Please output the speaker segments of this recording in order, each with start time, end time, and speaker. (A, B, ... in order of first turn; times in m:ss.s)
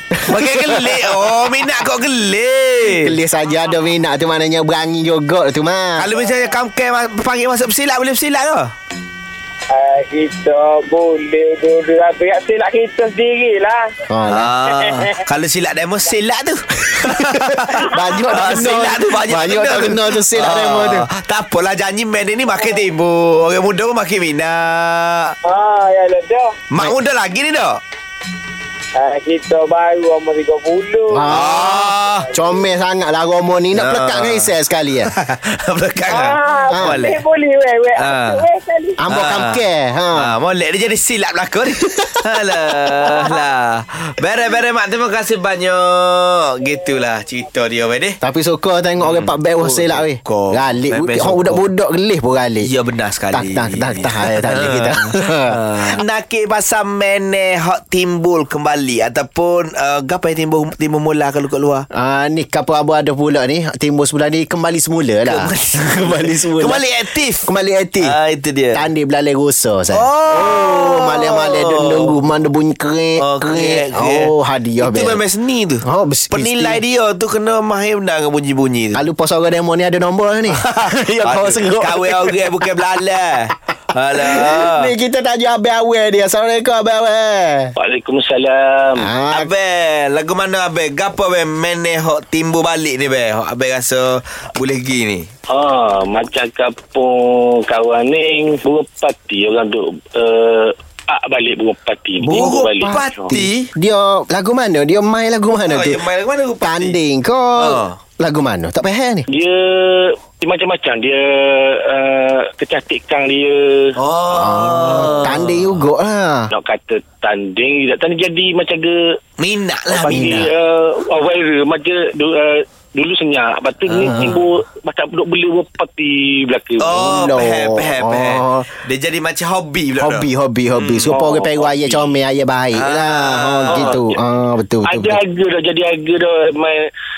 0:00.2-0:01.5 A
0:00.3-0:03.2 B
0:02.9-0:06.1 A
0:06.0-0:08.7 B
0:09.7-0:13.9 C
0:14.1-0:14.5 A
0:14.3-0:25.3 B
0:14.8-0:15.2 C
0:17.2-0:21.1 A
0:22.5-0:22.8 C
0:25.4-0:26.6 C
0:26.7-0:27.8 B
0:28.9-0:31.6 C
0:31.1-0:35.1 A
0:31.3-0:32.3 B
0:33.7-0:34.5 B
0:35.1-0:37.2 B
0:36.1-0:39.0 C
0:36.7-0:37.0 A
0:38.0-0:38.4 B
0:39.0-0:40.3 A
0:39.1-0:39.6 B
0:40.2-0:48.2 B
0:48.2-0:52.7 A
0:49.0-0:51.6 B
0:52.6-1:01.8 B
0:53.3-0:55.9 A
1:01.9-1:06.8 A
1:05.2-1:07.5 B
1:07.4-1:08.2 A
1:08.0-1:08.8 B
1:08.7-1:15.2 A
1:09.9-1:12.2 B
1:13.2-1:19.0 B
1:15.8-1:16.8 A
1:18.9-1:22.6 A
1:20.5-1:24.9 B
1:24.2-1:27.7 A
1:27.8-1:29.1 D
1:29.0-1:29.5 A
1:29.3-1:35.3 B
1:35.5-1:43.3 D
1:42.2-1:46.0 A
1:42.3-1:43.7 B
1:45.7-1:47.0 B
1:46.6-1:49.3 A
1:47.6-1:48.0 B
1:49.3-1:53.9 D
1:54.0-1:55.6 B
1:54.3-1:56.5 A
1:56.5-1:59.2 D
1:59.4-2:00.3 B
1:59.9-2:07.0 D
2:00.1-2:00.5 A
2:04.0-2:04.4 B
2:06.8-2:11.2 B
2:06.9-2:08.7 A
2:10.0-2:15.2 A
2:11.1-2:12.2 D
2:12.7-2:13.9 B
2:13.7-2:14.0 D
2:14.8-2:16.8 D